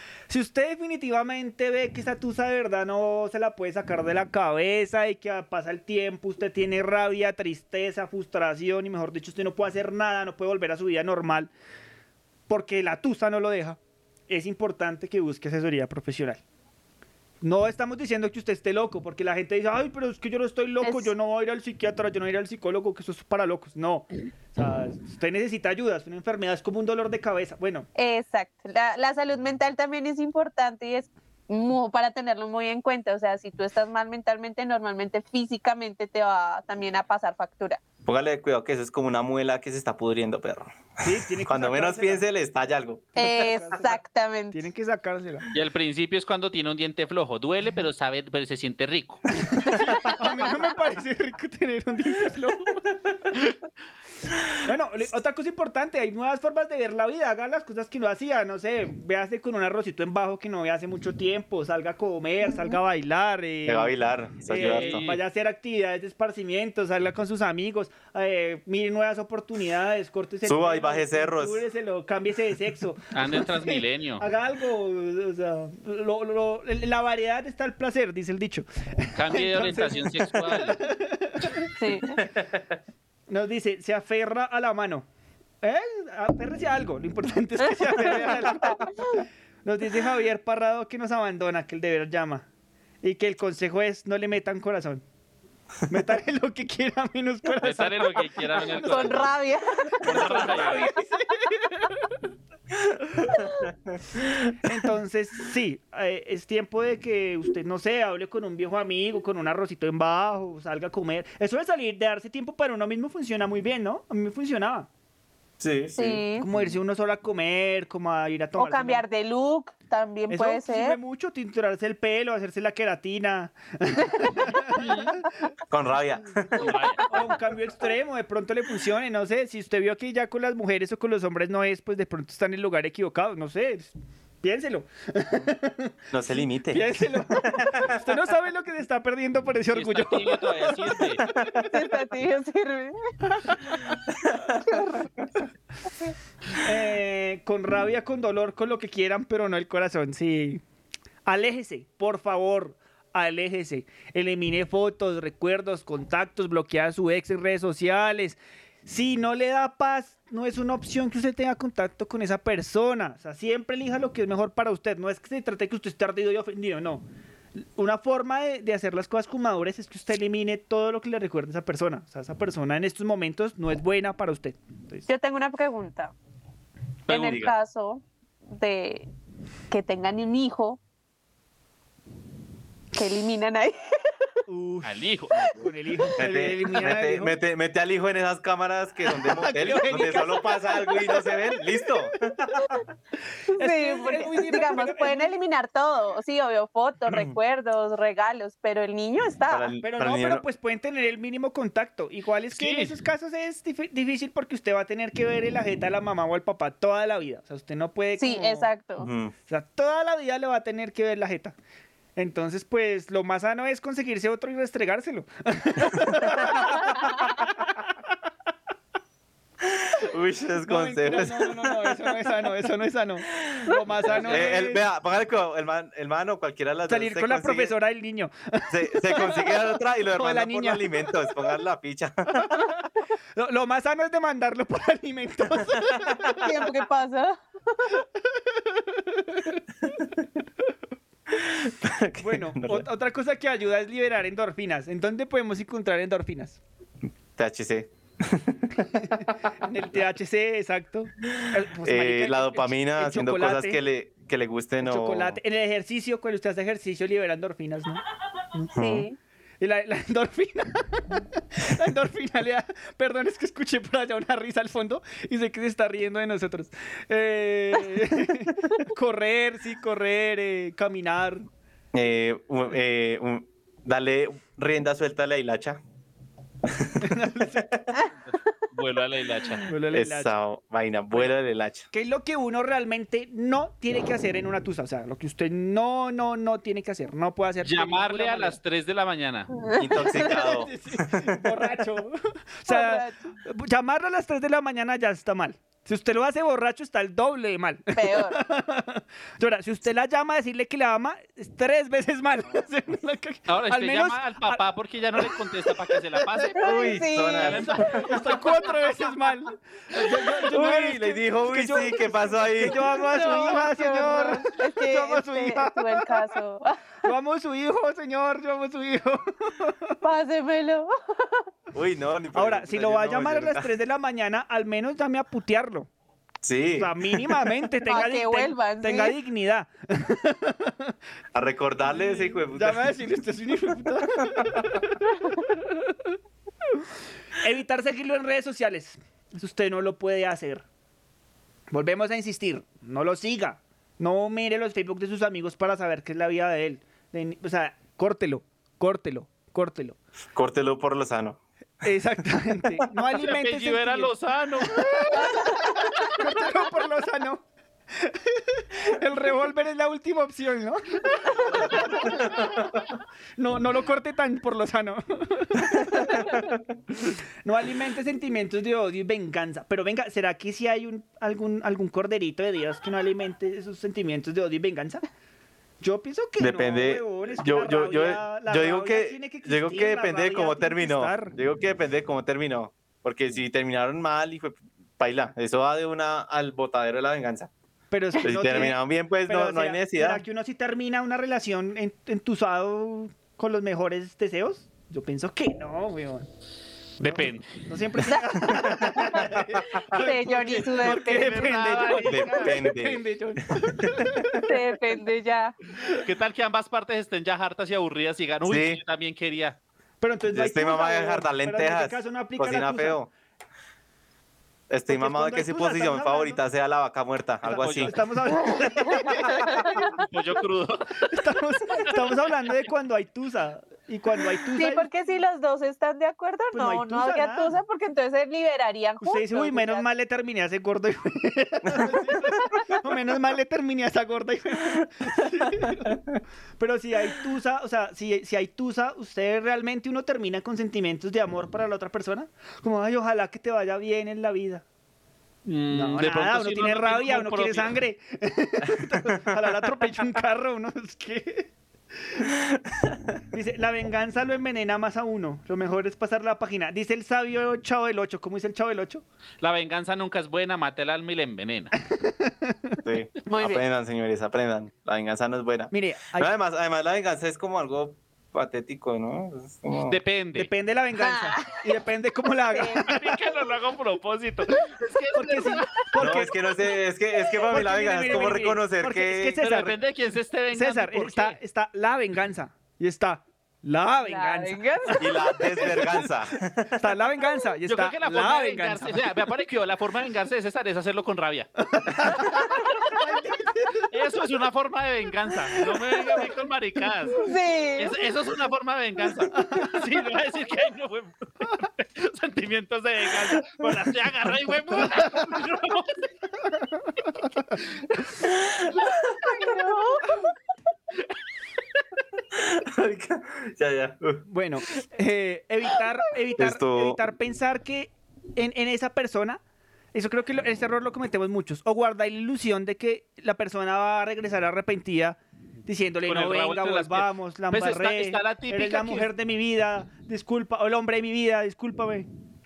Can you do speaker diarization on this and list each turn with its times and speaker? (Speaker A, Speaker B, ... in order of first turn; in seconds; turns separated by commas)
Speaker A: 0.3-11.5, Speaker A: 12.5-16.4, Speaker A: 17.4-27.9, Speaker B: 20.8-21.1, Speaker B: 28.0-37.8, Speaker C: 38.0-43.1, Speaker A: 41.0-42.2, Speaker A: 43.2-44.0, Speaker B: 43.2-44.6, Speaker A: 44.5-45.5, Speaker D: 45.5-49.2, Speaker A: 49.3-53.5, Speaker B: 49.8-50.1, Speaker A: 54.6-81.7, Speaker C: 63.6-65.2, Speaker D: 64.5-65.2, Speaker C: 70.5-71.6, Speaker D: 73.1-74.3, Speaker D: 79.2-80.8, Speaker B: 81.8-82.2, Speaker A: 83.3-85.1, Speaker A: 85.6-92.5, Speaker B: 88.1-89.2, Speaker A: 93.0-95.0, Speaker A: 95.9-99.2, Speaker D: 97.6-99.3, Speaker B: 98.8-100.5, Speaker A: 100.0-102.1, Speaker D: 100.0-100.9, Speaker C: 103.2-104.8, Speaker A: 104.6-114.9, Speaker C: 115.6-116.2, Speaker B: 116.0-116.5, Speaker A: 116.4-119.0, Speaker B: 118.6-121.0, Speaker A: 120.3-125.3, Speaker D: 124.8-125.0, Speaker C: 125.7-126.7, Speaker D: 126.6-127.3, Speaker A: 126.6-135.9, Speaker C: 136.1-138.2, Speaker A: 136.7-141.8, Speaker D: 139.7-141.2, Speaker C: 141.3-141.6, Speaker B: 141.7-143.0, Speaker A: 143.4-143.9, Speaker C: 144.2-144.6, Speaker A: 146.6-150.6, Speaker A: 151.3-167.1, Speaker A: 167.6-175.1, Speaker B: 175.1-176.1, Speaker B: 177.1-179.1, Speaker D: 177.1-177.5, Speaker C: 177.1-177.5, Speaker B: 179.7-180.8, Speaker B: 182.9-184.1, Speaker A: 184.5-185.0, Speaker D: 184.8-185.7, Speaker A: 185.6-187.3, Speaker C: 186.2-192.8, Speaker A: 189.1-191.4, Speaker B: 193.5-199.7, Speaker A: 193.5-195.4, Speaker C: 197.1-197.3, Speaker C: 199.5-200.4, Speaker A: 199.8-208.7, Speaker D: 202.5-202.9, Speaker B: 208.2-209.1, Speaker C: 209.0-209.3, Speaker A: 209.5-211.6, Speaker A: 212.2-217.7, Speaker C: 216.1-216.7, Speaker C: 219.9-222.5, Speaker A: 220.7-224.8, Speaker D: 224.0-224.5, Speaker C: 224.1-227.7, Speaker A: 226.9-231.1, Speaker C: 228.7-232.6, Speaker A: 232.4-232.8, Speaker A: 233.4-236.6, Speaker B: 236.4-237.9, Speaker A: 238.4-239.6, Speaker C: 241.3-242.9, Speaker A: 242.2-246.6, Speaker C: 247.4-249.3, Speaker A: 249.0-253.8, Speaker C: 251.8-255.4, Speaker A: 254.8-258.0, Speaker C: 258.8-259.1, Speaker B: 258.8-259.2, Speaker A: 259.6-271.5, Speaker C: 271.9-275.8, Speaker C: 276.7-277.9, Speaker A: 277.0-277.7, Speaker D: 278.3-279.7, Speaker A: 279.7-280.3, Speaker C: 279.9-281.9, Speaker A: 281.9-288.6, Speaker D: 287.6-289.5, Speaker C: 289.8-291.4, Speaker A: 290.0-304.6, Speaker B: 292.7-293.3, Speaker B: 297.9-298.4, Speaker D: 303.5-306.7, Speaker A: 305.2-306.5, Speaker B: 306.6-307.6, Speaker C: 306.6-308.2, Speaker D: 307.4-308.5, Speaker A: 307.6-316.3, Speaker C: 310.4-312.8, Speaker B: 312.9-316.8, Speaker A: 317.0-319.9, Speaker B: 320.0-321.4, Speaker C: 321.7-323.7, Speaker A: 322.3-325.9, Speaker C: 326.4-327.4, Speaker A: 326.8-330.9, Speaker B: 327.9-329.2, Speaker C: 331.3-332.9, Speaker A: 331.8-335.9, Speaker A: 337.4-340.6, Speaker A: 341.7-350.0, Speaker C: 350.4-351.4, Speaker A: 351.8-357.4, Speaker D: 353.1-355.3, Speaker B: 355.2-355.8, Speaker A: 358.0-362.6, Speaker A: 363.4-375.1, Speaker C: 365.8-366.5, Speaker A: 375.8-381.4, Speaker C: 376.4-387.5, Speaker A: 387.9-396.3, Speaker C: 388.2-390.2, Speaker D: 397.0-397.5, Speaker A: 397.0-404.5, Speaker C: 398.5-399.8, Speaker B: 399.9-401.5, Speaker D: 400.8-402.6, Speaker C: 402.1-403.0, Speaker C: 403.6-404.4, Speaker B: 404.4-405.6, Speaker D: 406.0-409.6, Speaker C: 408.4-408.8, Speaker A: 410.0-413.0, Speaker C: 410.3-413.1, Speaker C: 414.7-417.9, Speaker A: 414.9-416.4, Speaker D: 417.5-418.0, Speaker A: 417.5-420.0, Speaker B: 419.4-419.7, Speaker D: 419.7-421.1, Speaker A: 421.1-424.9, Speaker D: 421.8-422.1, Speaker B: 424.6-429.9, Speaker A: 426.5-427.6, Speaker A: 429.0-444.6, Speaker C: 435.6-435.9, Speaker D: 445.4-447.8, Speaker A: 445.7-452.3, Speaker C: 448.8-449.3, Speaker C: 452.3-453.0, Speaker A: 453.3-459.0, Speaker D: 459.4-461.8, Speaker A: 462.0-462.8, Speaker C: 462.8-470.0, Speaker B: 463.3-463.6, Speaker A: 465.7-466.3, Speaker D: 469.9-470.5, Speaker A: 470.4-473.1, Speaker B: 471.0-471.6, Speaker D: 472.7-475.7, Speaker A: 475.1-476.4, Speaker C: 476.0-479.4, Speaker A: 477.4-479.8, Speaker D: 479.4-481.4, Speaker A: 480.5-486.1, Speaker B: 484.0-485.2, Speaker C: 485.0-486.8, Speaker A: 486.8-489.1, Speaker D: 487.7-491.5, Speaker A: 491.7-493.9, Speaker D: 493.9-497.2, Speaker A: 495.5-496.3, Speaker B: 497.2-497.9, Speaker D: 497.8-505.9, Speaker A: 499.2-499.9, Speaker B: 509.2-510.1, Speaker A: 510.1-510.3, Speaker C: 512.3-514.2, Speaker A: 514.3-519.4, Speaker C: 516.4-517.0, Speaker A: 519.9-532.1, Speaker D: 526.1-529.1